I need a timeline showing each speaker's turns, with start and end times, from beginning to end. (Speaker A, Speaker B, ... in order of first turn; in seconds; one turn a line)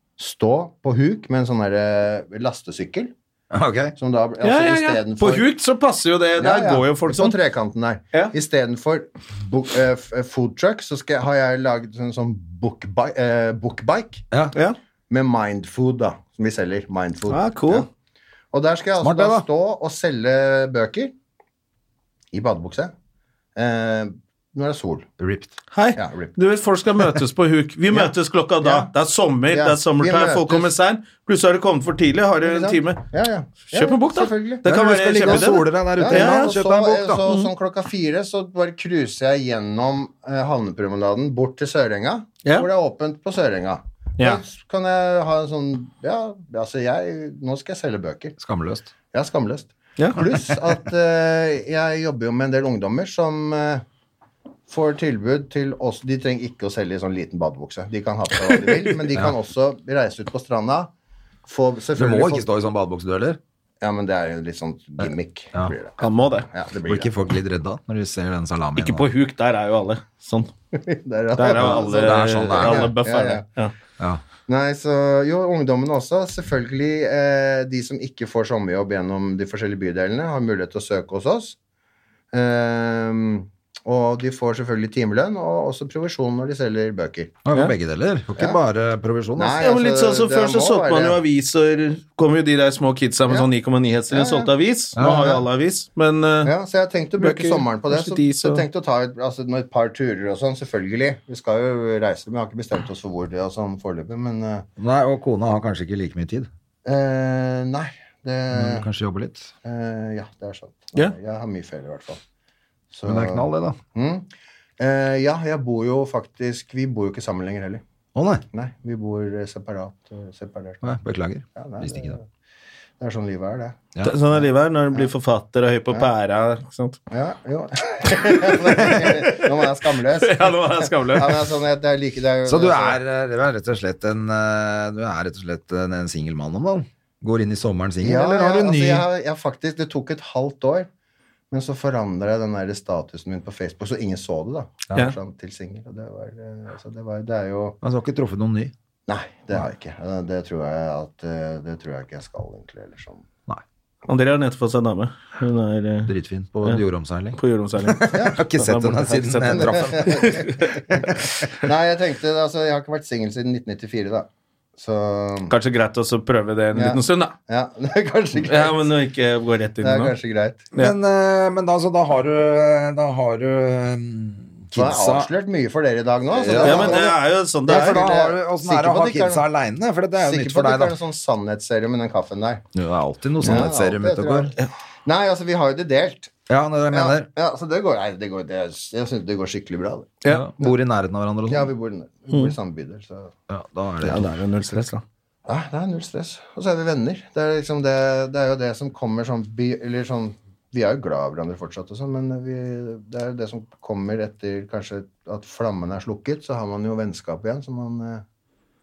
Speaker A: 0.2-3.1
Speaker B: 3.5-3.9
Speaker A: 4.0-5.5
Speaker C: 4.4-7.3
Speaker A: 6.4-14.2
Speaker A: 15.1-17.9
Speaker C: 17.3-17.9
Speaker A: 18.5-21.1
Speaker B: 19.0-19.4
Speaker A: 22.3-22.9
Speaker A: 23.6-25.1
Speaker B: 25.2-25.5
Speaker C: 25.7-33.0
Speaker A: 26.0-26.3
Speaker A: 27.9-28.9
Speaker A: 29.5-30.7
Speaker A: 32.4-34.7
Speaker C: 33.7-36.5
Speaker B: 34.6-37.2
Speaker A: 35.2-48.4
Speaker B: 48.4-48.9
Speaker A: 49.1-53.8
Speaker C: 50.0-50.2
Speaker A: 54.7-60.9
Speaker A: 61.5-62.4
Speaker B: 61.9-63.4
Speaker A: 63.8-67.1
Speaker B: 65.0-65.7
Speaker C: 66.0-66.5
Speaker B: 66.9-69.1
Speaker C: 68.8-70.5
Speaker A: 70.7-73.4
Speaker C: 71.3-73.7
Speaker B: 71.5-72.9
Speaker A: 74.5-81.5
Speaker A: 82.3-87.4
Speaker B: 87.4-89.6
Speaker A: 89.3-91.2
Speaker C: 89.6-96.5
Speaker A: 94.1-95.4
Speaker B: 95.0-95.4
Speaker A: 96.4-104.7
Speaker C: 97.2-98.6
Speaker B: 104.8-106.5
Speaker A: 106.8-108.9
Speaker B: 108.5-109.5
Speaker A: 109.6-112.2
Speaker A: 112.9-114.2
Speaker B: 113.0-113.8
Speaker A: 114.8-117.8
Speaker B: 118.1-118.4
Speaker A: 118.5-121.0
Speaker B: 120.8-122.2
Speaker A: 121.5-122.2
Speaker A: 123.0-123.9
Speaker C: 124.0-127.0
Speaker A: 127.1-133.0
Speaker C: 128.1-129.5
Speaker C: 130.1-131.4
Speaker B: 132.4-139.1
Speaker A: 138.0-140.9
Speaker A: 141.5-147.8
Speaker B: 147.8-148.7
Speaker A: 149.1-153.2
Speaker C: 154.1-156.1
Speaker B: 156.1-161.2
Speaker C: 157.3-161.1
Speaker A: 158.1-158.4
Speaker A: 159.4-165.5
Speaker C: 165.5-167.3
Speaker A: 166.7-168.9
Speaker C: 168.4-170.1
Speaker A: 169.8-170.7
Speaker B: 170.8-175.3
Speaker A: 174.7-177.1
Speaker B: 176.3-180.9
Speaker C: 176.6-178.0
Speaker A: 177.7-179.4
Speaker A: 180.2-182.6
Speaker B: 182.7-184.5
Speaker A: 183.4-186.3
Speaker B: 186.5-187.3
Speaker A: 186.9-190.7
Speaker B: 190.3-191.7
Speaker A: 191.5-193.3
Speaker B: 193.5-194.3
Speaker C: 194.0-195.0
Speaker A: 195.4-208.2